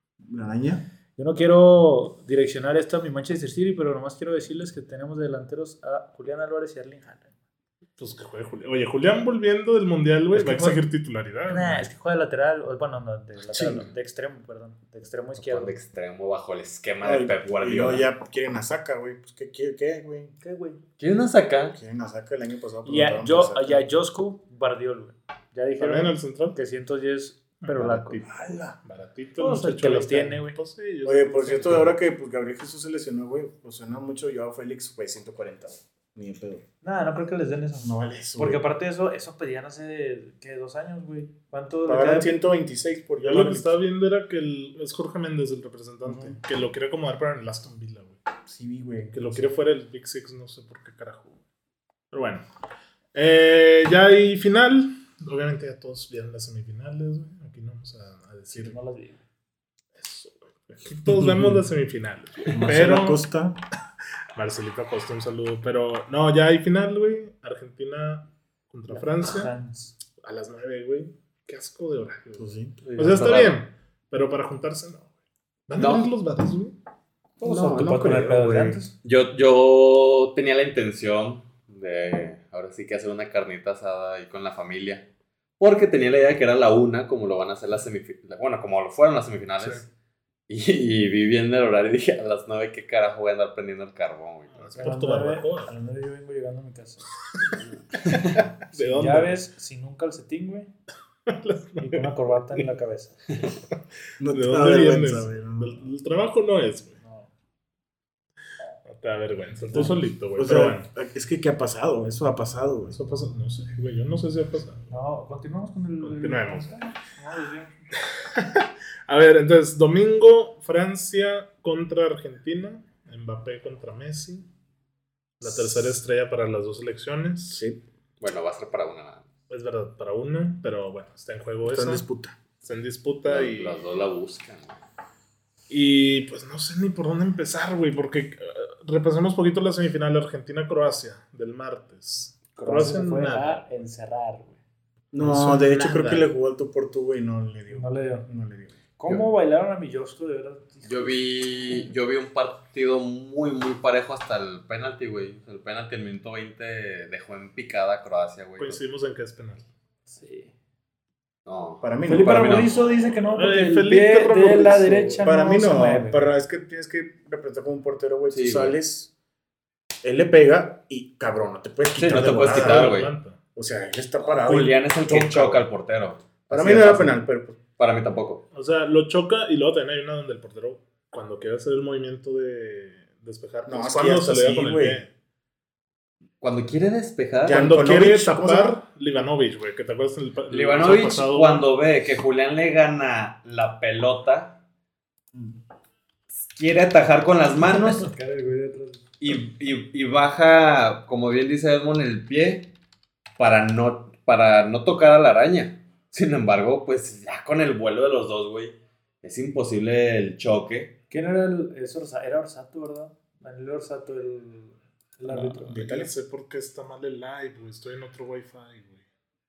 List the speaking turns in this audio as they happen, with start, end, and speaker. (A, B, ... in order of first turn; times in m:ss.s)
0:00.2-0:00.8 A
0:01.2-0:07.3 B
0:08.0-0:11.9 C
0:10.3-0:10.8 A
0:11.5-0:15.8 B
0:13.5-0:13.9 D
0:15.4-0:18.1 D
0:17.0-0:20.3 A
0:20.4-0:20.8 B
0:21.0-0:21.8 D
0:21.7-0:23.9 A
0:22.8-0:28.2 B
0:25.8-0:26.6 C
0:27.6-0:31.9 C
0:28.2-0:28.8 A
0:29.4-0:30.6 B
0:31.0-0:36.6 A
0:36.8-0:42.4 B
0:37.8-0:38.6 A
0:41.8-0:43.8 A
0:43.2-0:48.2 C
0:46.0-0:46.4 A
0:48.4-0:49.5 A
0:49.1-0:51.3 C
0:52.1-0:52.4 C
0:53.1-0:58.7 C
0:58.5-0:59.2 B
1:00.0-1:03.2 C
1:01.1-1:01.6 A
1:02.5-1:03.6 A
1:04.3-1:09.5 C
1:08.9-1:09.9 B
1:10.2-1:15.1 C
1:12.4-1:12.8 A
1:12.8-1:13.6 D
1:15.7-1:16.7 C
1:15.8-1:16.1 D
1:17.4-1:18.9 B
1:17.4-1:18.8 A
1:19.0-1:25.0 D
1:25.6-1:29.9 D
1:30.5-1:34.9 D
1:34.5-1:35.7 C
1:34.7-1:37.1 B
1:37.5-1:39.4 C
1:37.6-1:38.4 D
1:38.8-1:40.7 B
1:41.3-1:42.6 C
1:41.8-1:43.4 B
1:44.2-1:45.9 A
1:44.3-1:47.0 C
1:47.0-1:47.3 B
1:48.8-1:50.8 C
1:49.7-1:53.0 A
1:52.9-1:54.8 C
1:54.9-1:57.9 B
1:56.0-1:56.7 C
1:58.2-2:04.5 C
2:05.4-2:07.6 C
2:05.4-2:05.9 A
2:07.5-2:07.8 A
2:08.2-2:09.3 D
2:09.5-2:12.0 C
2:11.6-2:12.4 A
2:12.6-2:13.8 C
2:13.2-2:14.8 D
2:15.7-2:23.6 C
2:22.5-2:24.6 B
2:25.1-2:28.8 A
2:25.2-2:26.3 C
2:27.7-2:28.2 B
2:29.0-2:31.8 B
2:30.8-2:38.8 D
2:38.6-2:39.6 C
2:40.1-2:40.5 B
2:41.4-2:42.8 D
2:41.8-2:42.4 A
2:42.0-2:46.3 B
2:43.3-2:45.2 C
2:45.2-2:49.1 A
2:48.3-2:48.8 D
2:50.0-2:52.9 A
2:52.0-2:53.1 D
2:52.0-2:53.4 C
2:53.5-2:55.7 A
2:54.2-2:57.2 D
2:56.5-2:57.6 A
2:57.8-2:58.4 D
2:58.5-3:05.1 C
3:03.6-3:05.0 A
3:06.4-3:07.7 D
3:07.4-3:08.8 A
3:07.5-3:11.7 C
3:10.5-3:14.6 D
3:16.3-3:18.1 D
3:17.8-3:19.0 B
3:19.2-3:22.7 D
3:23.4-3:30.9 D
3:31.1-3:35.8 B
3:35.3-3:39.0 C
3:35.7-3:36.1 A